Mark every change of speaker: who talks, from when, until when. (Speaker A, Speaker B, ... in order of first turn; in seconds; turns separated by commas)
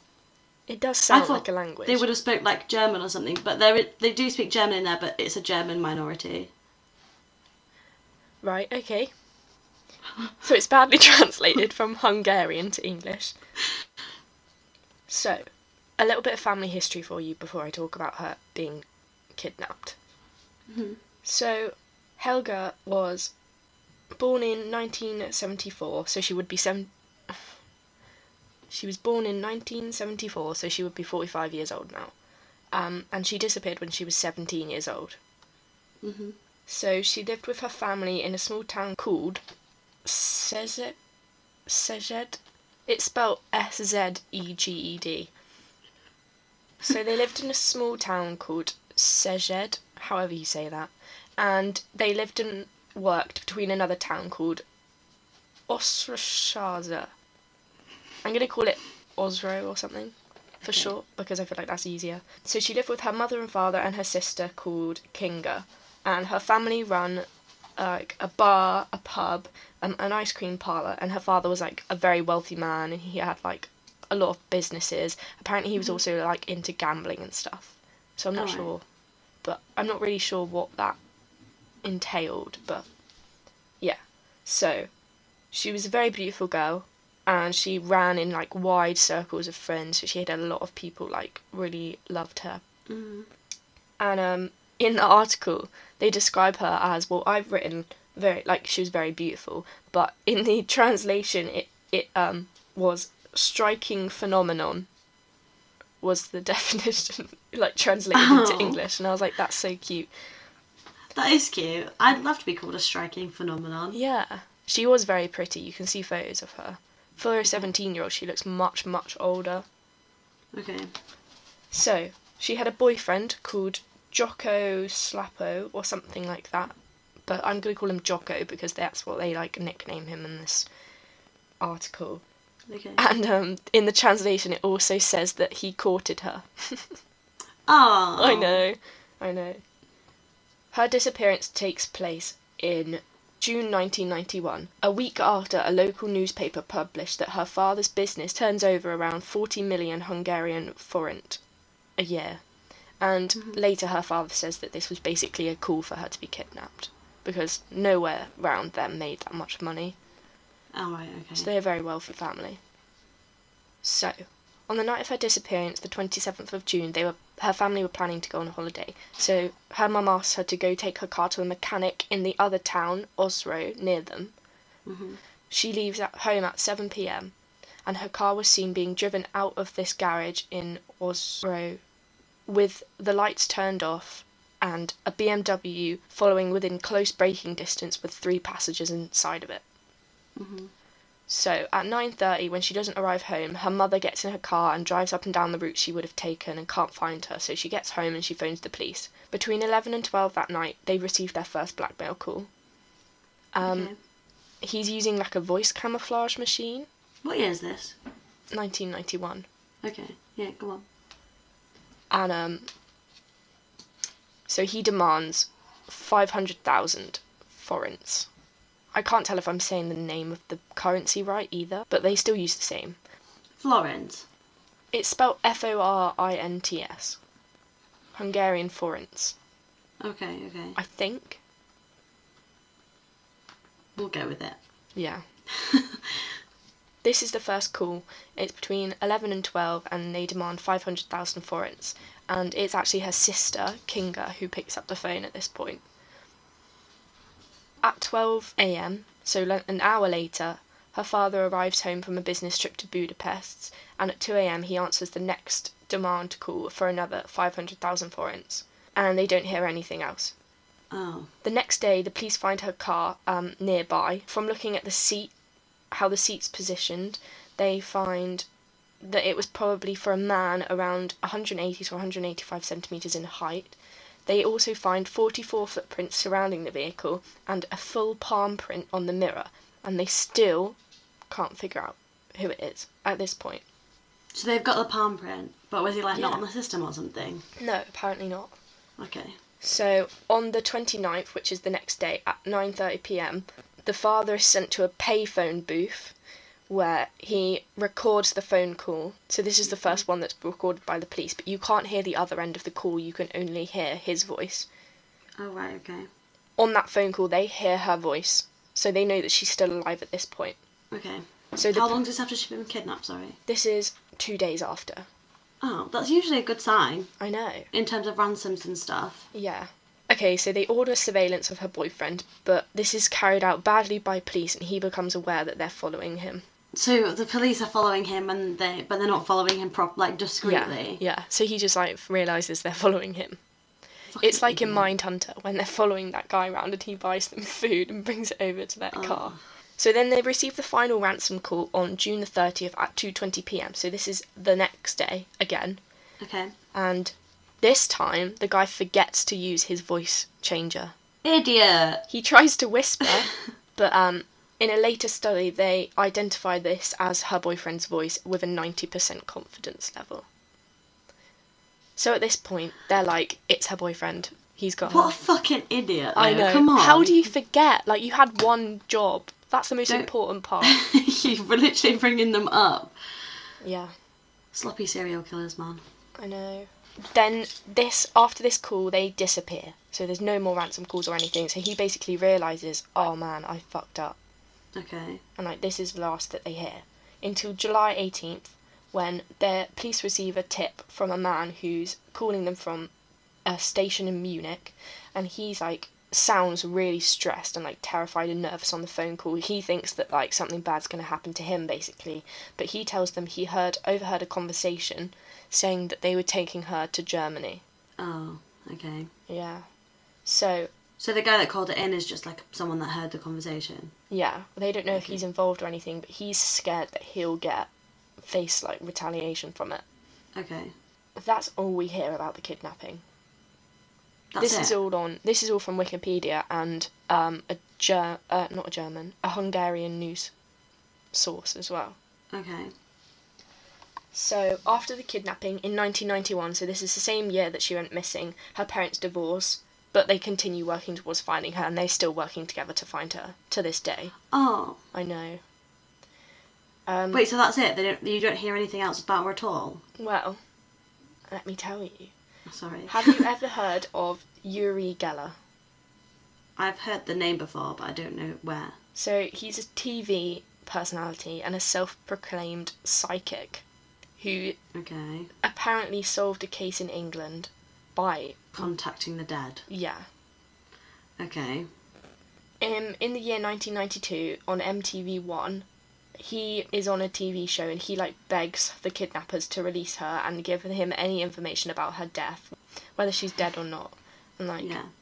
Speaker A: 0.7-2.0, Speaker B: 1.1-6.5, Speaker A: 8.4-9.1, Speaker A: 10.4-13.3, Speaker A: 15.1-15.4, Speaker A: 16.0-20.0, Speaker B: 20.7-21.0, Speaker A: 21.2-23.3, Speaker A: 24.1-27.4, Speaker A: 28.7-32.1, Speaker A: 32.7-35.2, Speaker B: 36.0-36.4, Speaker A: 36.7-39.4, Speaker A: 40.0-41.0, Speaker A: 41.7-45.3, Speaker A: 46.8-54.6, Speaker A: 55.7-57.1, Speaker A: 58.2-67.3, Speaker A: 67.8-78.8, Speaker B: 78.3-78.7, Speaker A: 79.4-81.0, Speaker A: 81.8-82.9, Speaker A: 83.8-84.9, Speaker A: 85.5-92.6, Speaker B: 92.9-93.3, Speaker A: 94.0-104.9, Speaker A: 106.0-110.1, Speaker B: 108.1-108.8, Speaker B: 111.2-114.0, Speaker A: 113.9-119.7, Speaker B: 120.5-120.9, Speaker A: 121.7-126.7, Speaker A: 127.2-130.7, Speaker A: 131.6-132.2, Speaker B: 132.7-133.0, Speaker A: 133.0-137.0, Speaker B: 137.7-138.6, Speaker A: 138.2-139.6, Speaker A: 140.7-151.4, Speaker A: 152.0-152.4, Speaker A: 153.0-160.0, Speaker B: 160.8-161.5, Speaker A: 161.4-162.6, Speaker A: 163.8-174.3, Speaker B: 174.9-175.2, Speaker A: 175.5-177.3, Speaker A: 177.9-181.8, Speaker A: 182.5-189.6, Speaker B: 190.4-190.7, Speaker A: 191.3-202.5, Speaker A: 203.5-203.9, Speaker B: 203.6-204.0, Speaker A: 204.6-206.9, Speaker B: 207.2-207.9, Speaker A: 208.5-209.5, Speaker B: 209.8-210.8, Speaker A: 212.1-212.7, Speaker A: 214.5-218.3, Speaker A: 218.9-223.0, Speaker B: 223.6-224.2, Speaker A: 224.9-227.2, Speaker A: 228.2-229.3, Speaker B: 230.0-230.8, Speaker A: 230.8-231.4, Speaker B: 234.0-234.6, Speaker A: 234.9-235.2, Speaker B: 235.5-236.2, Speaker A: 237.0-245.8, Speaker A: 247.8-260.3, Speaker B: 260.9-261.3, Speaker A: 261.4-265.3, Speaker A: 265.9-268.5, Speaker A: 269.0-280.8, Speaker A: 281.3-283.6, Speaker B: 284.4-287.4, Speaker A: 286.1-286.4, Speaker A: 287.6-288.5, Speaker B: 289.0-289.4, Speaker A: 289.6-296.1, Speaker A: 296.7-304.7, Speaker B: 305.4-306.1, Speaker A: 306.6-310.6, Speaker B: 310.9-313.4, Speaker A: 311.6-312.0, Speaker A: 313.5-315.1, Speaker B: 315.6-317.1, Speaker A: 317.2-317.7, Speaker B: 317.7-319.3, Speaker A: 319.3-326.4, Speaker B: 326.7-331.0, Speaker A: 330.4-333.4, Speaker B: 334.1-334.9, Speaker A: 334.2-345.8, Speaker B: 338.9-339.4, Speaker B: 346.2-346.6, Speaker A: 346.7-350.9, Speaker B: 351.2-352.0, Speaker A: 352.1-360.3, Speaker A: 362.0-365.1, Speaker B: 364.9-367.3, Speaker A: 366.2-370.8, Speaker B: 370.6-372.9, Speaker A: 373.6-373.9, Speaker B: 374.5-375.8, Speaker A: 376.2-384.2, Speaker B: 384.8-385.2, Speaker A: 385.4-392.9, Speaker A: 393.4-407.6, Speaker B: 408.0-409.1, Speaker A: 409.3-409.7, Speaker A: 410.3-410.7, Speaker B: 411.0-413.9, Speaker A: 414.1-417.7, Speaker B: 414.9-415.2, Speaker A: 418.2-419.8, Speaker B: 420.4-420.7, Speaker A: 421.2-423.0, Speaker B: 424.3-424.8, Speaker A: 424.4-430.3, Speaker A: 431.1-432.0, Speaker B: 432.3-432.7, Speaker A: 434.1-444.1, Speaker B: 444.3-444.8, Speaker A: 444.9-445.4, Speaker A: 446.9-447.2, Speaker B: 447.1-449.8, Speaker A: 450.0-450.4, Speaker A: 451.3-452.1, Speaker B: 452.5-453.2, Speaker A: 452.9-455.4, Speaker B: 456.6-458.8, Speaker A: 458.9-463.6, Speaker A: 464.2-464.6, Speaker B: 464.7-465.3, Speaker A: 465.4-468.6, Speaker B: 468.5-469.6, Speaker A: 469.7-470.1, Speaker B: 471.2-471.7, Speaker A: 472.6-475.7, Speaker A: 476.2-484.8, Speaker B: 484.6-484.9